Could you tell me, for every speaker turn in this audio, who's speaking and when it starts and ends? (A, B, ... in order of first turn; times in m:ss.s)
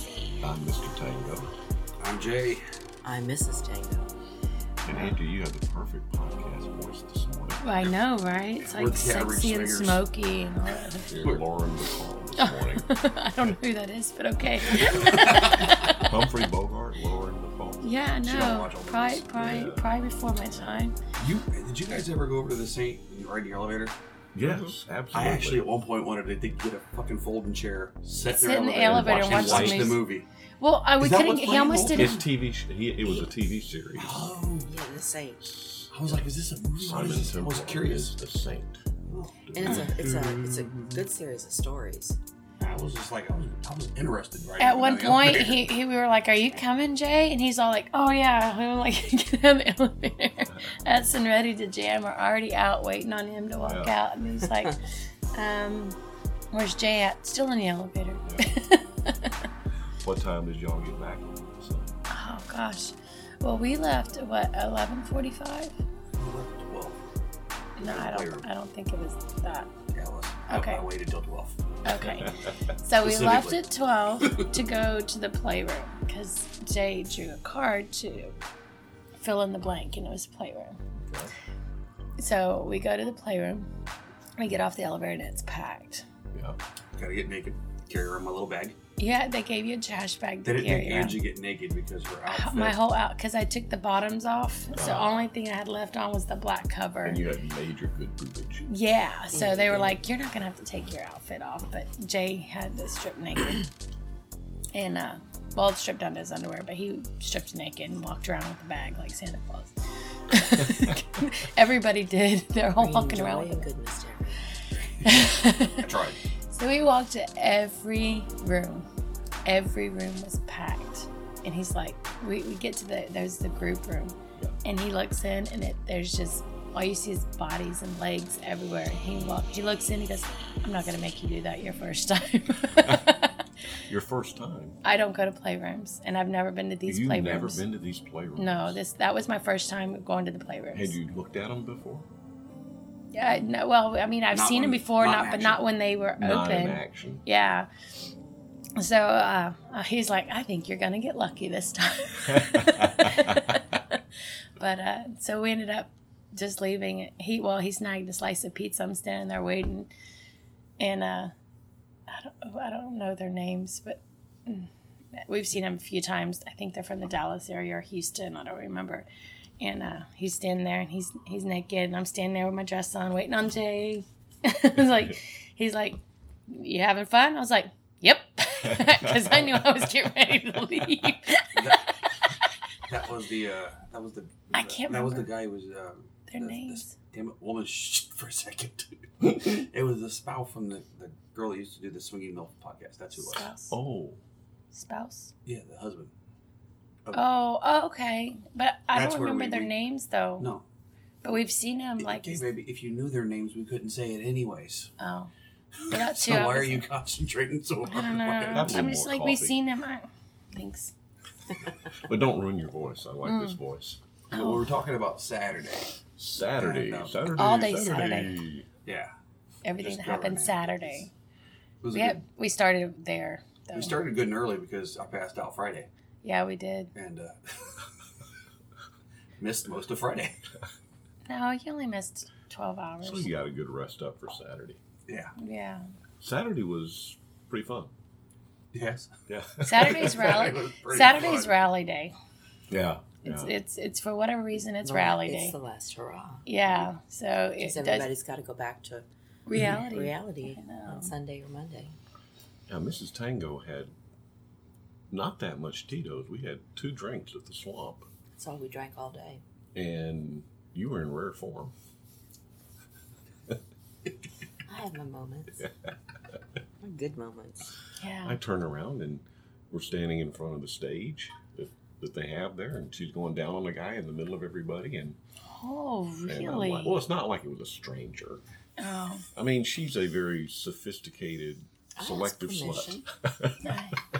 0:00.4-0:01.5 A
0:02.0-0:02.6 B
0:03.0-0:04.1 C
0:04.8-0:07.8 A
0:04.9-0:05.1 D
0:07.6-0:11.1 D
0:08.6-0:10.0 B
0:11.1-0:11.4 B
0:11.1-0:12.9 A
0:12.4-0:16.1 D
0:14.8-0:15.7 B
0:14.9-0:17.9 A
0:17.8-0:21.0 D
0:18.2-0:19.3 B
0:19.3-0:20.0 A
0:21.2-0:23.9 B
0:24.3-0:25.6 A
0:25.1-0:30.2 B
0:28.3-0:30.0 D
0:28.8-0:30.0 A
0:30.6-0:32.2 D
0:31.0-0:32.3 B
0:31.2-0:34.2 A
0:33.9-0:34.7 B
0:34.6-0:35.4 C
0:35.4-0:36.2 A
0:35.9-0:38.1 B
0:36.8-0:38.8 A
0:39.1-0:41.0 B
0:39.5-0:39.9 A
0:39.5-0:42.2 C
0:42.6-0:45.6 B
0:44.6-0:54.8 D
0:50.4-0:50.7 A
0:53.6-0:53.9 A
0:54.5-0:54.8 C
0:55.3-0:56.0 D
0:56.5-0:59.3 D
1:00.0-1:02.0 A
1:02.1-1:05.8 D
1:06.2-1:07.0 B
1:07.8-1:09.7 D
1:07.8-1:08.5 B
1:09.9-1:11.7 B
1:10.5-1:10.8 D
1:11.8-1:18.4 D
1:11.9-1:12.5 A
1:13.0-1:13.6 B
1:19.2-1:20.8 D
1:21.0-1:21.3 A
1:22.2-1:23.7 D
1:24.4-1:26.0 D
1:26.3-1:26.6 A
1:26.9-1:28.8 B
1:29.0-1:31.2 D
1:30.4-1:32.8 B
1:32.3-1:37.2 D
1:34.7-1:35.3 A
1:37.0-1:38.7 A
1:38.6-1:43.6 D
1:39.3-1:40.0 C
1:44.7-1:49.7 D
1:50.3-1:53.7 D
1:52.8-1:55.0 C
1:55.0-1:56.2 B
1:55.0-1:55.8 D
1:56.5-1:58.8 D
1:59.4-2:13.3 D
2:12.6-2:13.0 A
2:13.9-2:14.8 A
2:14.8-2:17.6 D
2:16.8-2:18.8 A
2:18.4-2:21.0 D
2:20.7-2:22.1 A
2:23.1-2:27.7 D
2:24.3-2:25.6 B
2:26.2-2:27.2 A
2:28.8-2:34.0 D
2:32.3-2:33.3 A
2:34.6-2:39.9 D
2:40.8-2:41.3 D
2:42.1-2:49.0 D
2:49.6-3:01.6 D
2:58.7-2:59.6 A
3:01.5-3:01.8 B
3:02.9-3:13.5 B
3:04.5-3:05.3 D
3:06.3-3:06.9 D
3:13.3-3:13.8 D
3:13.7-3:14.2 A
3:14.7-3:15.3 D
3:15.4-3:16.1 B
3:17.1-3:20.5 D
3:18.9-3:19.7 B
3:21.2-3:22.4 D
3:22.0-3:24.9 B
3:25.0-3:25.3 D
3:25.8-3:28.8 B
3:25.9-3:26.8 D
3:27.9-3:30.9 D
3:28.4-3:29.6 A
3:31.9-3:34.0 A
3:33.2-3:33.6 D
3:34.3-3:35.9 B
3:34.3-3:34.6 D
3:36.2-3:38.7 A
3:36.5-3:37.3 B
3:37.4-3:38.4 D
3:38.8-3:39.1 B
3:39.6-3:41.1 D
3:39.8-3:41.1 B
3:41.8-3:42.2 B
3:41.9-3:43.9 D
3:43.7-3:45.9 B
3:46.2-3:46.9 D
3:46.9-3:47.9 B
3:49.4-3:50.4 B
3:51.3-3:53.3 D
3:53.0-3:54.8 A
3:55.1-3:55.3 B
3:55.4-3:55.9 D
3:56.2-3:57.9 A
3:58.7-3:59.1 B
3:59.3-4:00.4 A
3:59.6-4:02.1 D
3:59.8-4:01.6 B
4:02.7-4:03.5 A
4:03.2-4:05.5 D
4:04.8-4:06.4 C
4:06.4-4:08.1 D
4:07.6-4:09.0 C
4:09.5-4:11.1 D
4:09.7-4:11.9 C
4:12.7-4:13.9 A
4:15.1-4:18.1 A
4:18.4-4:19.4 C
4:19.7-4:21.7 A
4:24.7-4:25.6 C
4:26.8-4:27.7 C
4:28.0-4:28.4 D
4:28.2-4:35.2 A
4:35.5-4:37.0 D
4:36.3-4:38.4 A
4:38.8-4:39.2 D
4:39.3-4:43.6 A
4:42.0-4:43.0 C
4:43.6-4:44.0 D